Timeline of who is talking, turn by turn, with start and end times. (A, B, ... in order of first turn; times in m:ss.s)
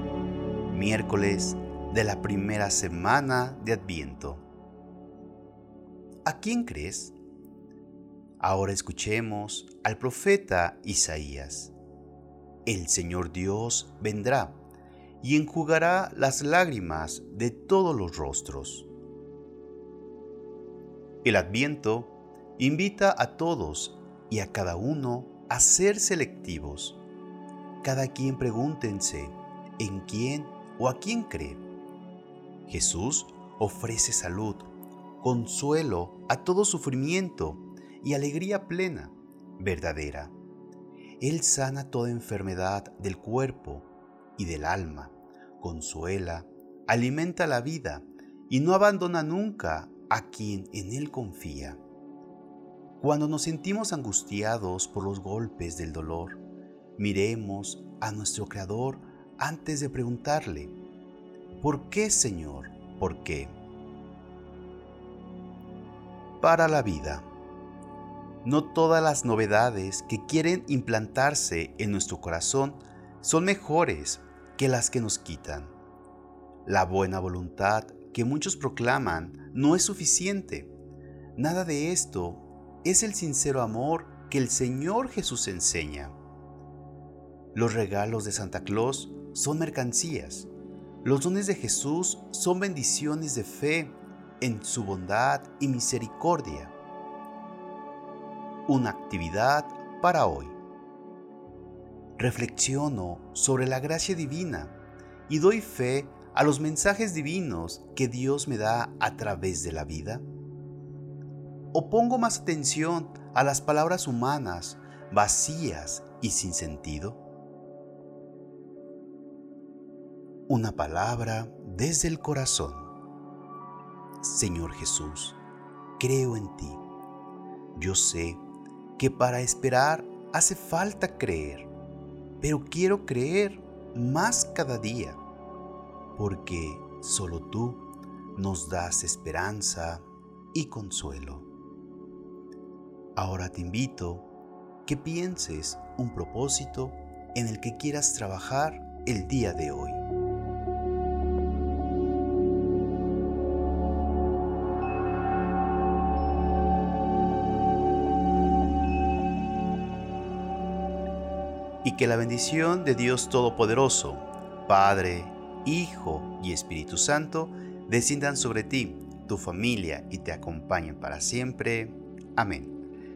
0:00.7-0:04.4 A
0:06.2-0:07.2 A
0:08.4-0:11.7 A
0:12.7-0:14.6 A
0:15.2-0:18.9 A
0:21.2-0:27.0 A
0:27.8-0:31.6 A
0:32.7-0:34.7 A
0:35.2-0:40.3 A
0:41.2-0:51.8 A
0:53.0-0:56.4 A
0:57.0-1:00.7 A
1:01.6-1:03.6 A
1:06.4-1:07.3 A
1:08.4-1:15.8 A
1:16.6-1:20.7 A
1:21.4-1:26.2 A
1:27.6-1:30.5 A
1:31.0-1:36.7 A
1:38.7-1:40.6 A
1:42.2-1:44.7 A
1:45.3-1:50.2 A
1:51.7-1:57.2 A
2:00.5-2:02.9 A
2:04.2-2:05.4 A
2:06.0-2:06.8 A
2:07.8-2:08.4 A
2:09.0-2:11.7 A
2:12.4-2:15.2 A
2:16.2-2:21.5 A
2:23.2-2:24.3 A
2:24.9-2:30.0 A
2:41.8-2:52.8 A